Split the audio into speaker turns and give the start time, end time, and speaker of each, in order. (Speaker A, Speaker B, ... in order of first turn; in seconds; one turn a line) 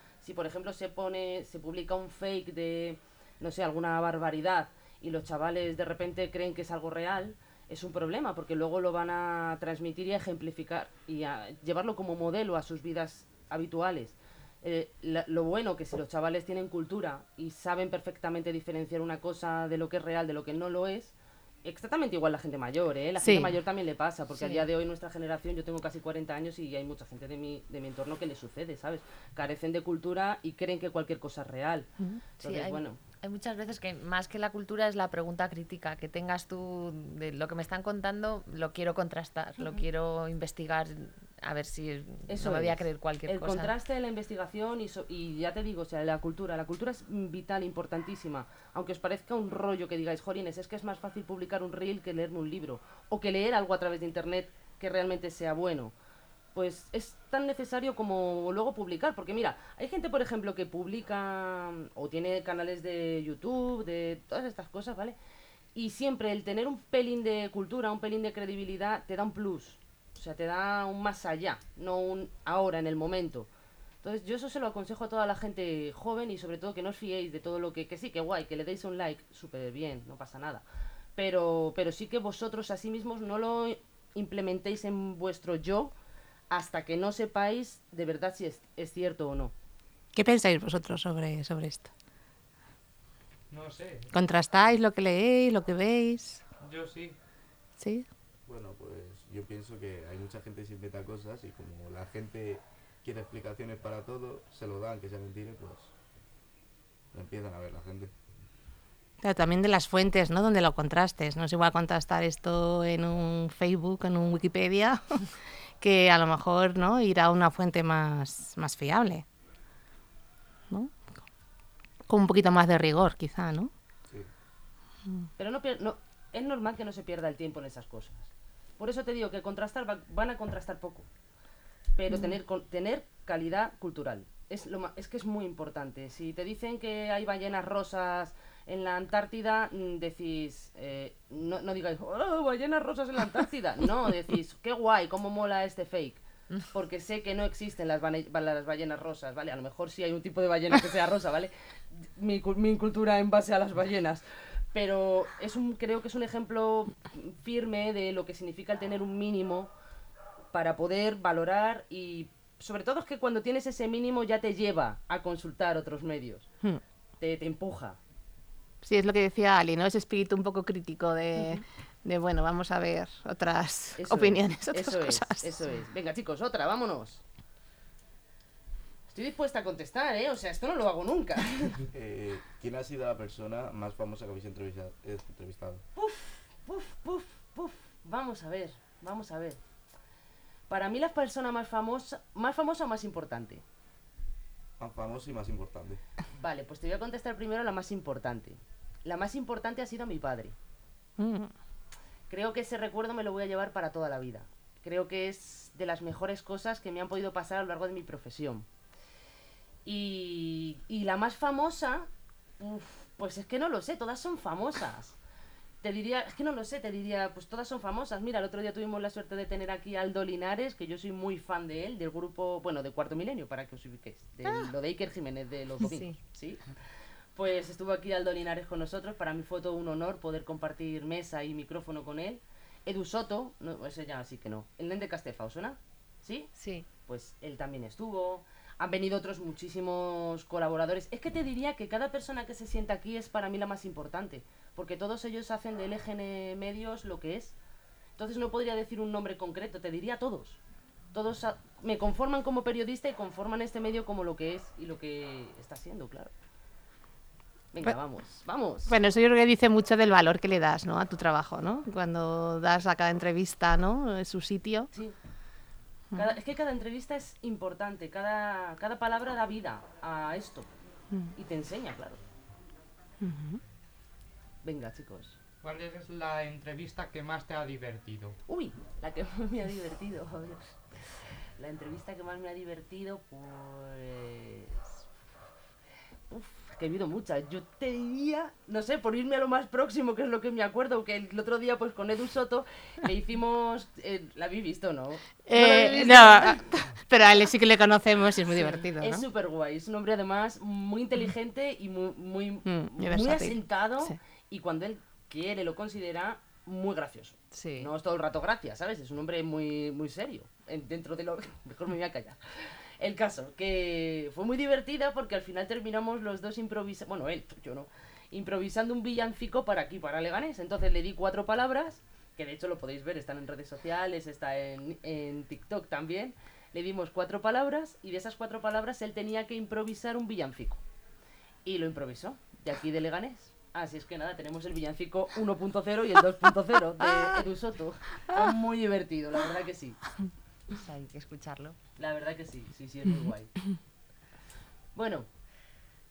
Speaker A: 0.2-31.9
Speaker B: 23.2-23.5
Speaker C: 24.4-24.7
Speaker A: 32.4-33.0
Speaker C: 32.4-43.7
Speaker A: 42.3-55.9
Speaker A: 56.5-65.2
Speaker A: 65.8-73.5
Speaker A: 74.0-80.6
Speaker A: 81.2-85.9
Speaker A: 86.5-89.5
Speaker B: 90.1-91.9
Speaker D: 93.5-94.1
Speaker B: 94.1-96.4
Speaker D: 96.6-97.2
Speaker B: 97.8-98.1
Speaker E: 98.5-105.9
Speaker E: 107.1-108.1
Speaker B: 109.2-115.3
Speaker B: 115.8-119.2
Speaker B: 120.7-121.1
Speaker B: 122.1-123.7
Speaker A: 125.4-131.1
Speaker A: 131.9-159.7
Speaker A: 160.5-166.5
Speaker A: 167.2-168.0
Speaker B: 168.8-175.5
Speaker A: 174.0-177.2
Speaker A: 179.1-181.8
Speaker E: 181.9-185.8
Speaker A: 186.0-189.6
Speaker A: 190.7-193.6
Speaker E: 194.8-196.0
Speaker A: 196.3-200.6
Speaker B: 201.2-201.5
Speaker A: 202.3-208.7
Speaker A: 209.9-212.1
Speaker A: 212.6-215.2
Speaker A: 215.8-226.6
Speaker C: 225.8-226.2
Speaker A: 227.4-236.5
Speaker C: 236.6-236.9
Speaker A: 237.1-247.6
Speaker A: 248.2-250.6
Speaker A: 251.1-256.3
Speaker A: 257.7-259.0
Speaker B: 258.9-264.9
Speaker A: 266.1-270.7
Speaker A: 271.3-272.2
Speaker B: 273.2-273.6
Speaker A: 274.6-275.4
Speaker D: 275.6-278.4
Speaker A: 278.5-285.0
Speaker A: 286.3-296.7
Speaker B: 295.5-299.2
Speaker A: 298.8-330.8
Speaker B: 302.7-304.2
Speaker C: 307.5-307.9
Speaker A: 331.6-340.0
Speaker C: 340.7-341.8
Speaker A: 342.0-343.5
Speaker A: 344.9-345.3